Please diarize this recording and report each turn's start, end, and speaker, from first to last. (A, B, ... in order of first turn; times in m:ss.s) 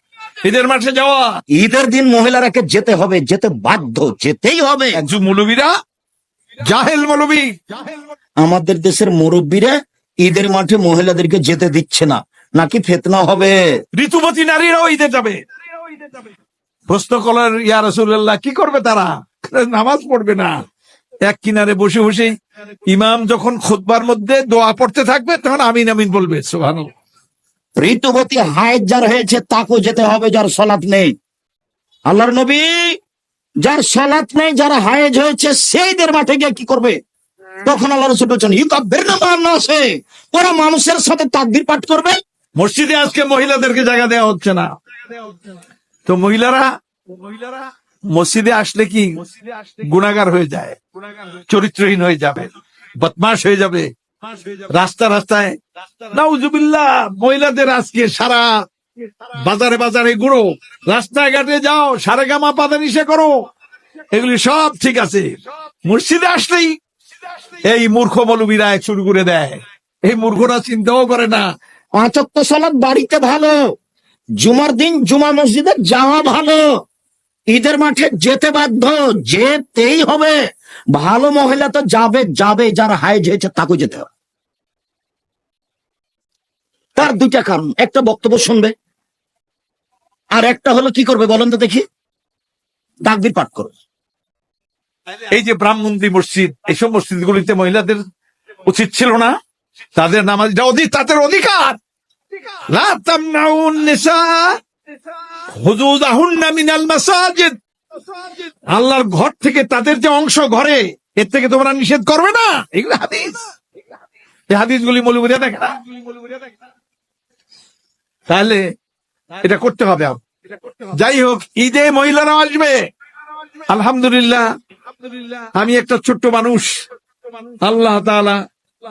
0:00.4-0:01.4 A
0:01.6-0:05.0 B
0:05.0-0:05.7 A
0:06.6-0:08.0 A
0:08.4-0:13.6 B
0:14.0-0:15.4 A
0:16.9-0:20.5 A
0:21.2-0:22.3 A
0:22.9-0:26.9 A
0:27.8-0:31.1 B
0:32.1-0:33.0 B
0:33.6-0:37.0 B
0:37.6-0:42.2 B
0:42.6-0:45.4 A
0:46.1-0:58.5 A
0:59.2-1:03.4 A
1:04.1-1:05.3 A
1:05.9-1:06.8 A
1:07.4-1:11.4 A
1:12.0-1:13.6 B
1:14.4-1:16.7 B
1:17.5-1:20.4 B
1:20.9-1:24.1 B
1:27.0-1:28.7 B
1:30.4-1:31.8 B
1:33.1-1:33.7 B
1:35.3-1:38.0 A
1:38.6-1:39.3 A
1:40.0-1:41.8 A
1:42.7-1:44.6 A
1:45.5-1:47.6 A
1:48.3-1:53.4 A
1:54.5-1:56.3 A
1:58.3-1:58.6 A
1:59.4-2:00.2 A
2:00.7-2:02.8 A
2:03.7-2:04.4 A
2:05.0-2:06.8 A
2:07.6-2:08.4 A